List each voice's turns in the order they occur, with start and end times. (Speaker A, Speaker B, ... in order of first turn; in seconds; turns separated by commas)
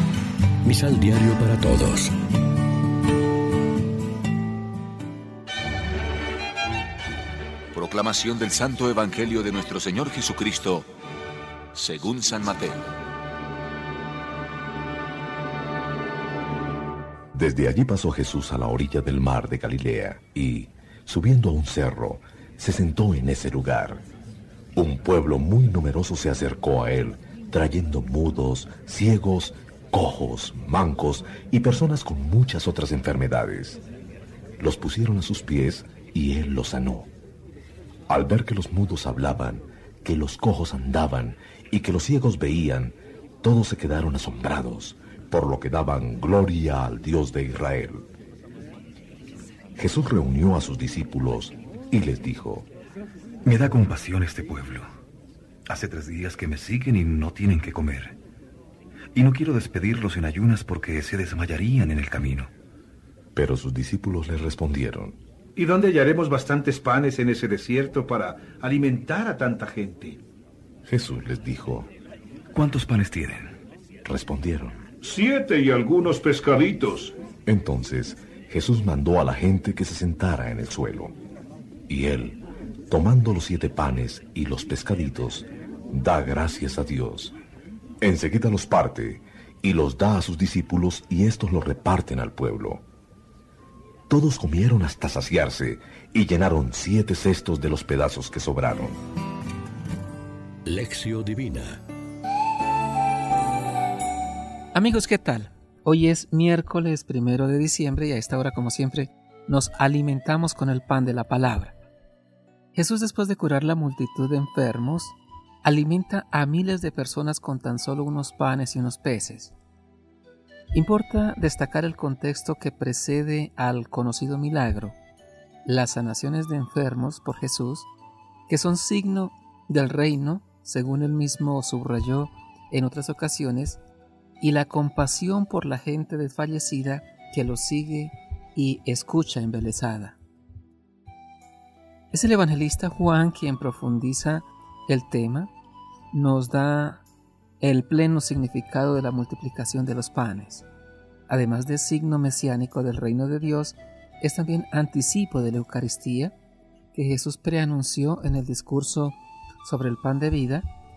Speaker A: 0.6-2.1, Speaker B: 7.7-10.9, Speaker B: 11.8-12.8, Speaker C: 17.4-24.1, Speaker C: 24.8-33.8, Speaker C: 34.6-37.1, Speaker C: 38.1-48.0, Speaker C: 49.8-52.7, Speaker D: 53.7-54.8, Speaker D: 55.7-58.1, Speaker D: 59.2-62.5, Speaker C: 63.4-65.2, Speaker E: 65.6-70.2, Speaker C: 70.9-71.9, Speaker E: 72.5-73.5, Speaker C: 74.1-74.9, Speaker E: 75.0-77.2, Speaker C: 77.5-81.2, Speaker C: 81.9-87.3, Speaker C: 88.0-92.8, Speaker C: 94.1-99.0, Speaker A: 100.7-101.8, Speaker F: 104.7-111.8, Speaker F: 112.7-119.5, Speaker F: 120.7-125.0, Speaker F: 125.6-127.9, Speaker F: 128.5-133.8, Speaker F: 134.4-140.2, Speaker F: 142.1-145.5, Speaker F: 146.1-147.0, Speaker F: 147.6-150.7, Speaker F: 151.3-156.3, Speaker F: 156.9-160.7